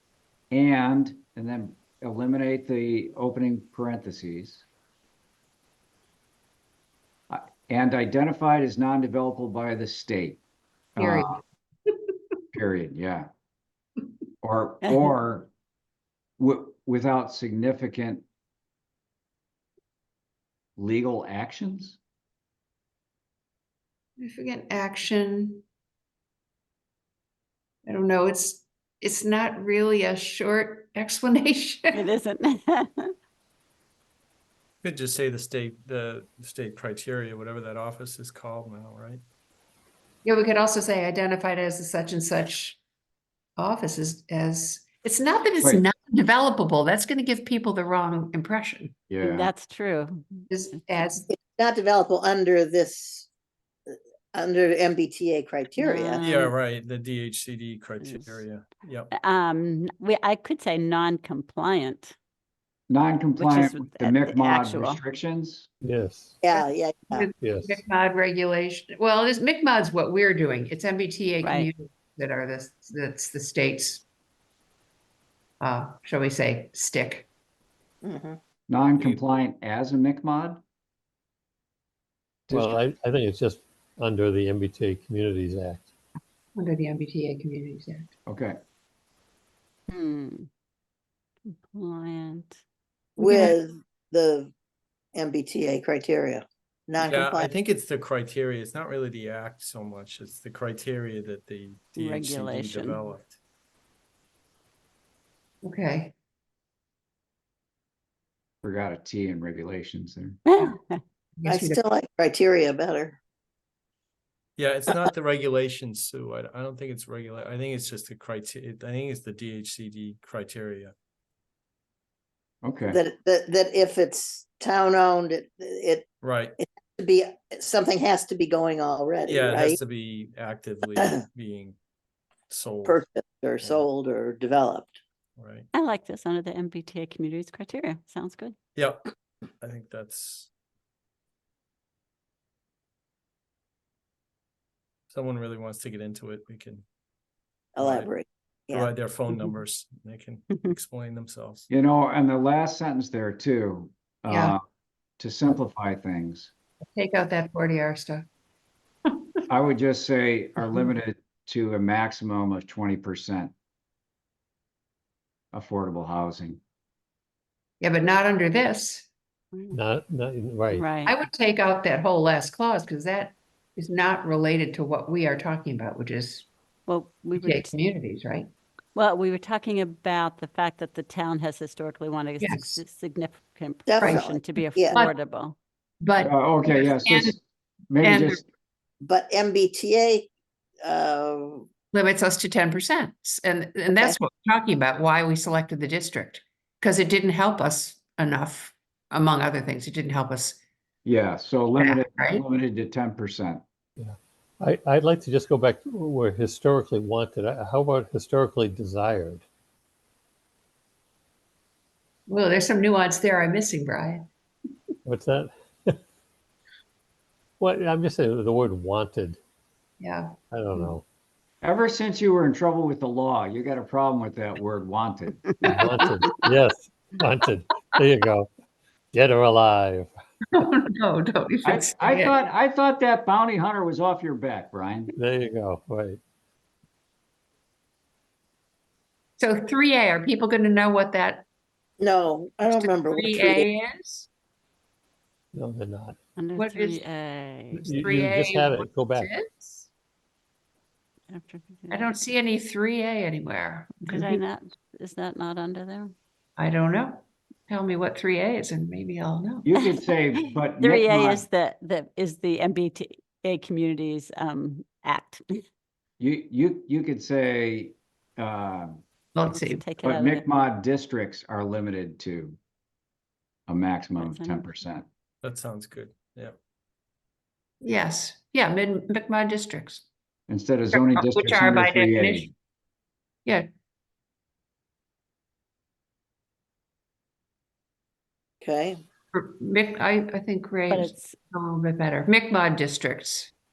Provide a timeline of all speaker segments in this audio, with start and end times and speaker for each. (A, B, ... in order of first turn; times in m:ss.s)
0:00.5-0:04.6 A
0:07.3-0:10.4 A
0:11.0-0:11.4 A
0:11.0-0:12.0 B
0:12.5-0:13.3 A
0:14.4-0:15.5 A
0:14.8-0:15.1 C
0:16.4-0:18.2 A
0:20.8-0:22.0 A
0:24.2-0:25.6 B
0:27.8-0:32.1 B
0:31.9-0:33.1 C
0:34.8-0:39.2 D
0:40.2-0:42.8 B
0:43.6-0:49.0 B
0:49.1-0:49.5 A
0:49.2-0:51.1 C
0:50.5-0:51.3 B
0:51.3-0:53.3 E
0:53.9-0:56.2 E
0:55.8-0:56.5 C
0:56.2-0:59.1 D
0:58.0-0:58.4 C
0:59.1-1:02.1 C
1:02.9-1:05.7 A
1:03.4-1:05.0 C
1:05.8-1:06.4 F
1:06.4-1:07.3 E
1:06.5-1:14.0 B
1:07.4-1:07.8 F
1:11.4-1:11.7 C
1:15.6-1:17.3 B
1:18.0-1:18.4 E
1:18.7-1:20.6 A
1:22.5-1:22.8 A
1:22.5-1:25.8 F
1:26.5-1:28.1 B
1:28.3-1:28.6 A
1:29.9-1:30.5 C
1:31.4-1:32.6 C
1:33.2-1:34.5 E
1:33.2-1:33.6 B
1:35.1-1:37.5 E
1:37.0-1:43.4 D
1:41.9-1:43.0 C
1:45.6-1:46.1 B
1:48.6-1:50.4 A
1:50.5-1:51.0 C
1:51.4-1:51.8 B
1:51.4-1:53.2 E
1:54.6-2:00.9 D
2:02.6-2:03.0 A
2:02.9-2:06.0 E
2:06.2-2:06.6 D
2:06.6-2:09.8 E
2:09.2-2:11.8 D
2:11.0-2:11.2 E
2:12.5-2:13.0 D
2:12.8-2:15.0 E
2:13.6-2:13.9 D
2:15.4-2:15.7 D
2:15.7-2:18.6 C
2:18.7-2:19.0 D
2:19.6-2:20.5 D
2:25.1-2:26.8 D
2:27.8-2:28.9 E
2:27.8-2:28.1 D
2:28.7-2:31.7 D
2:30.5-2:30.8 C
2:31.7-2:34.6 A
2:34.3-2:34.5 B
2:35.2-2:36.5 A
2:36.9-2:38.2 B
2:39.0-2:39.4 B
2:39.5-2:43.5 A
2:45.5-2:46.6 A
2:47.8-2:49.0 B
2:49.5-2:49.8 C
2:49.7-2:50.9 F
2:50.7-2:51.2 C
2:51.0-2:56.5 B
2:56.9-2:57.7 C
2:57.4-2:58.5 B
2:58.9-3:05.6 C
3:02.4-3:02.8 B
3:03.9-3:05.0 E
3:04.0-3:05.1 B
3:06.0-3:07.4 B
3:06.2-3:07.4 A
3:07.9-3:08.4 A
3:08.0-3:08.4 B
3:09.0-3:10.3 E
3:10.8-3:11.6 E
3:11.9-3:20.6 B
3:21.0-3:23.6 A
3:21.7-3:22.4 B
3:24.0-3:29.4 F
3:32.3-3:34.2 B
3:35.0-3:36.0 F
3:37.6-3:39.4 F
3:40.0-3:40.9 B
3:40.5-3:41.0 F
3:41.6-3:45.8 A
3:45.6-3:48.5 F
3:49.1-3:50.1 F
3:50.5-3:52.4 B
3:51.6-3:55.1 A
3:55.1-3:56.2 F
3:59.4-4:01.4 B
4:02.0-4:03.7 E
4:02.7-4:04.3 B
4:05.5-4:06.2 F
4:06.4-4:07.8 C
4:06.6-4:07.0 B
4:07.8-4:09.9 B
4:07.8-4:09.3 F
4:11.3-4:12.1 C
4:11.9-4:14.4 B
4:14.0-4:16.1 C
4:16.6-4:19.7 B
4:19.6-4:21.5 A
4:20.3-4:25.6 C
4:26.2-4:29.0 A
4:29.3-4:29.8 B
4:29.5-4:30.4 C
4:30.0-4:32.6 A
4:33.7-4:35.0 A
4:34.2-4:34.7 C
4:35.4-4:36.6 D
4:37.8-4:40.0 B
4:40.5-4:42.5 A
4:40.9-4:42.5 B
4:48.6-4:49.0 E
4:49.3-4:53.5 B
4:50.9-4:51.4 C